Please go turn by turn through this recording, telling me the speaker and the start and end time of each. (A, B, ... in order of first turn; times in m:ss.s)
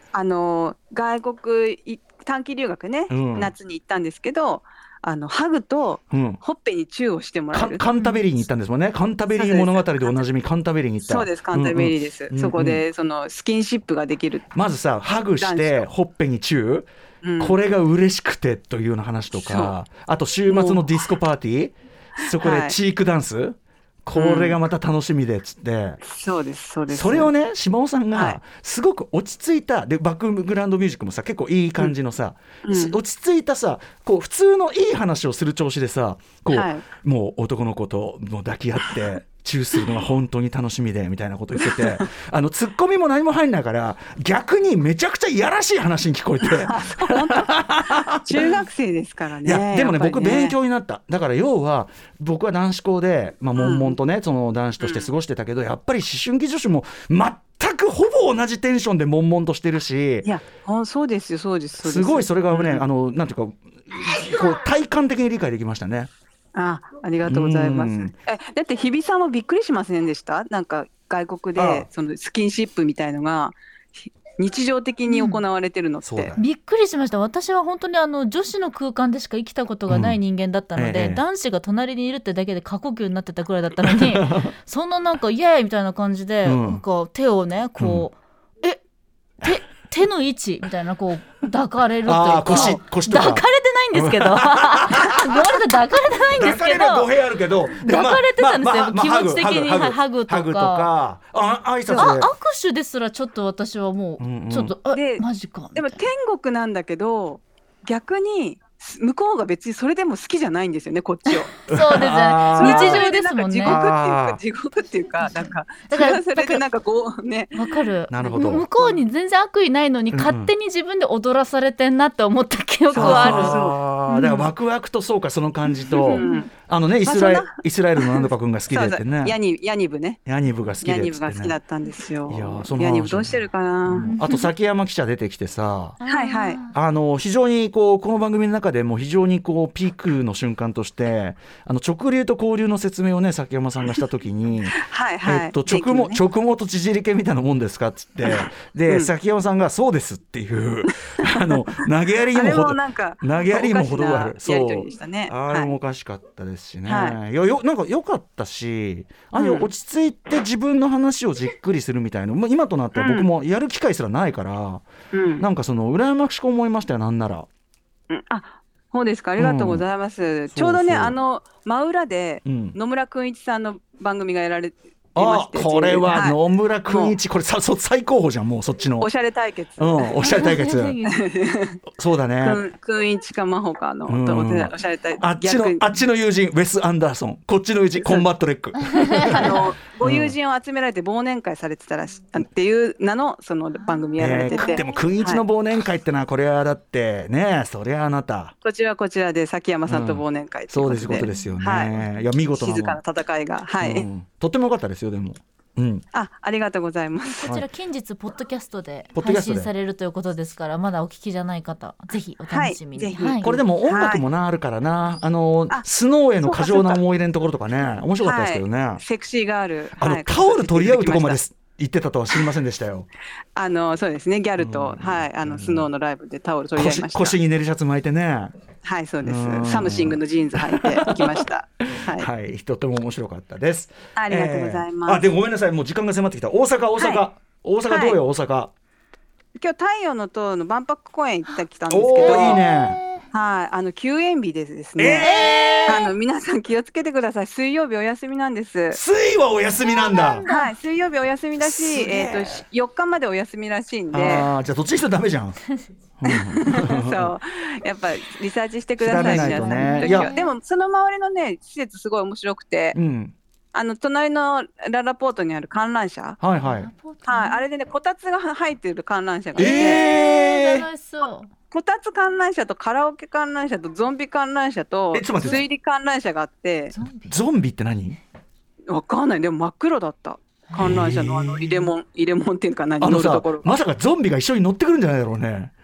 0:00.1-0:07.8 A
0:03.1-0:03.5 B
0:06.1-0:06.4 B
0:07.5-0:12.8 B
0:09.4-0:10.2 A
0:11.0-0:14.5 A
0:14.5-0:26.0 B
0:15.4-0:15.9 A
0:17.2-0:17.6 A
0:19.4-0:19.8 A
0:20.5-0:20.9 A
0:22.2-0:22.8 A
0:24.1-0:24.6 A
0:26.0-0:27.3 A
0:26.9-0:48.5 B
0:28.1-0:28.4 A
0:32.6-0:33.0 A
0:36.5-0:36.8 A
0:41.6-0:42.0 A
0:46.4-0:50.6 A
0:49.4-1:00.3 B
0:53.6-0:54.0 A
0:54.8-0:55.1 A
1:00.2-1:02.8 A
1:01.8-1:06.1 B
1:06.5-1:16.3 A
1:07.3-1:08.1 B
1:11.6-1:11.9 B
1:15.1-1:15.4 C
1:16.0-1:16.5 B
1:16.4-1:28.8 C
1:19.9-1:20.2 B
1:20.8-1:21.2 B
1:23.8-1:24.5 B
1:26.4-1:26.8 B
1:27.8-1:28.1 B
1:29.4-1:37.1 C
1:32.0-1:35.6 B
1:32.5-1:32.8 A
1:36.4-1:42.3 B
1:37.8-1:40.9 C
1:41.9-1:42.2 A
1:42.0-1:46.0 C
1:44.2-1:44.8 B
1:44.9-1:51.6 A
1:51.3-1:53.8 C
1:51.7-1:53.1 B
1:52.6-1:59.0 A
1:53.6-1:54.4 B
1:55.2-1:56.6 C
1:57.5-2:04.5 C
1:58.1-1:58.6 B
2:00.1-2:00.5 B
2:02.9-2:03.8 A
2:02.9-2:09.4 B
2:05.9-2:06.5 C
2:06.0-2:06.5 A
2:07.0-2:10.2 A
2:10.3-2:11.6 B
2:10.8-2:14.2 A
2:12.3-2:16.0 B
2:14.0-2:14.5 C
2:16.0-2:16.8 C
2:16.1-2:16.6 A
2:16.7-2:44.9 B
2:24.8-2:26.2 A
2:28.3-2:29.1 A
2:31.2-2:31.6 A
2:32.3-2:35.8 A
2:36.9-2:37.2 A
2:39.4-2:39.7 A
2:43.0-2:43.3 A
2:45.1-2:45.5 A
2:45.4-2:47.5 B
2:48.1-2:57.2 A
2:49.4-2:49.9 B
2:50.5-2:51.2 B
2:52.4-2:52.8 B
2:55.2-2:59.1 B
2:59.0-3:00.2 A
2:59.8-3:01.0 B
3:00.2-3:01.1 C
3:01.0-3:01.8 A
3:02.0-3:02.6 B
3:02.4-3:05.9 A
3:04.1-3:10.4 B
3:08.0-3:08.3 A
3:09.1-3:09.5 C
3:09.3-3:15.4 A
3:13.8-3:15.1 C
3:14.2-3:18.5 B
3:18.6-3:21.9 A
3:19.9-3:23.0 B
3:21.1-3:21.6 C
3:22.5-3:24.1 A
3:23.8-3:26.0 B
3:26.1-3:27.6 A
3:27.4-3:33.4 C
3:29.2-3:29.7 B
3:32.5-3:34.3 A
3:33.4-3:39.0 B
3:36.4-3:37.0 A
3:38.2-3:41.4 A
3:40.0-3:43.1 B
3:43.6-3:47.4 A
3:44.6-3:45.9 B
3:46.8-3:48.5 B
3:48.8-3:52.3 A
3:49.2-3:58.7 B
3:54.2-3:55.2 A
3:57.0-3:57.3 A
3:57.9-3:58.2 A
3:59.6-4:02.6 A
4:01.9-4:03.0 B
4:02.1-4:03.2 C
4:03.3-4:09.0 A
4:05.0-4:06.1 B
4:05.2-4:06.1 C
4:08.9-4:10.5 B
4:09.8-4:10.7 C
4:10.5-4:14.5 A
4:11.6-4:12.6 B
4:14.1-4:15.6 B
4:16.2-4:17.3 B
4:16.3-4:23.0 A
4:19.0-4:20.3 B
4:19.1-4:20.5 C
4:23.0-4:23.4 B
4:23.7-4:26.4 A
4:26.4-4:26.9 B
4:26.6-4:27.6 C
4:27.3-4:30.1 A
4:29.6-4:31.5 C
4:29.6-4:30.9 B
4:31.7-4:37.0 A
4:35.1-4:35.7 B
4:35.4-4:35.6 C
4:36.9-4:37.4 C
4:37.3-4:38.2 B
4:38.9-4:43.8 A
4:40.7-4:41.0 C
4:40.8-4:41.9 B
4:43.0-4:45.7 B